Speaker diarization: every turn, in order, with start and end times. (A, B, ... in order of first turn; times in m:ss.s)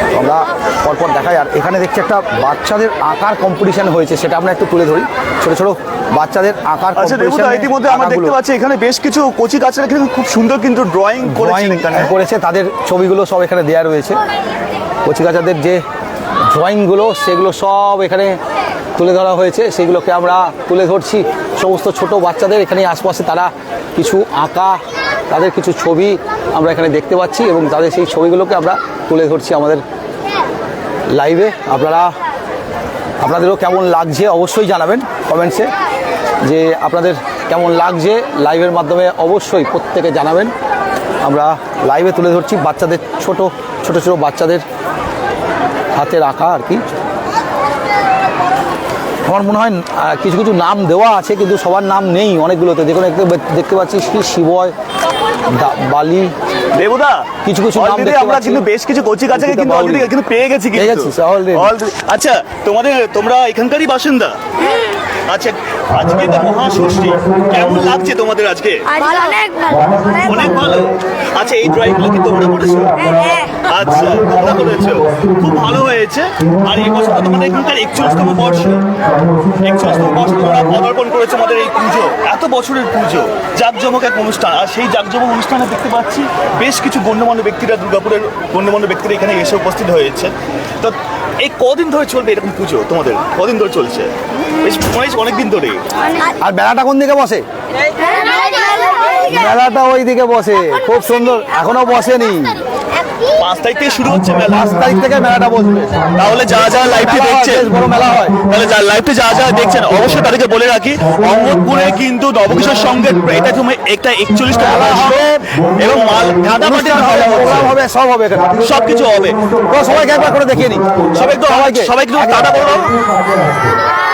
0:00.1-0:08.3 A
0:07.0-0:12.1 B
0:11.2-0:14.2 A
0:15.0-0:15.8 A
0:16.5-0:18.4 A
0:19.0-0:24.8 A
0:25.3-0:29.8 A
0:31.1-0:32.1 A
0:33.2-0:35.7 A
0:36.4-0:40.5 A
0:41.2-0:44.6 A
0:46.0-0:46.8 A
0:49.2-0:54.7 A
0:55.5-0:56.3 A
0:56.8-1:04.3 B
0:57.4-0:58.6 A
0:59.3-1:00.1 A
1:00.7-1:01.7 A
1:05.3-1:08.9 B
1:05.9-1:08.1 C
1:09.6-1:10.9 C
1:10.2-1:12.9 B
1:11.6-1:15.8 C
1:13.7-1:18.8 B
1:16.4-1:20.9 C
1:19.6-1:34.1 B
1:34.6-1:35.8 B
1:36.4-1:37.4 A
1:39.2-1:42.6 A
1:43.4-1:44.8 B
1:44.0-1:48.8 C
1:44.4-1:46.0 A
1:46.2-1:47.7 B
1:46.7-1:48.4 A
1:48.5-1:55.2 B
1:49.3-1:50.3 C
1:51.0-1:53.6 C
1:54.3-1:57.7 C
1:54.6-1:55.4 A
1:55.8-1:57.7 B
1:56.6-1:58.5 A
1:58.3-2:01.4 C
1:58.6-1:59.4 B
1:59.7-2:02.6 A
2:01.2-2:02.9 B
2:02.2-2:03.8 C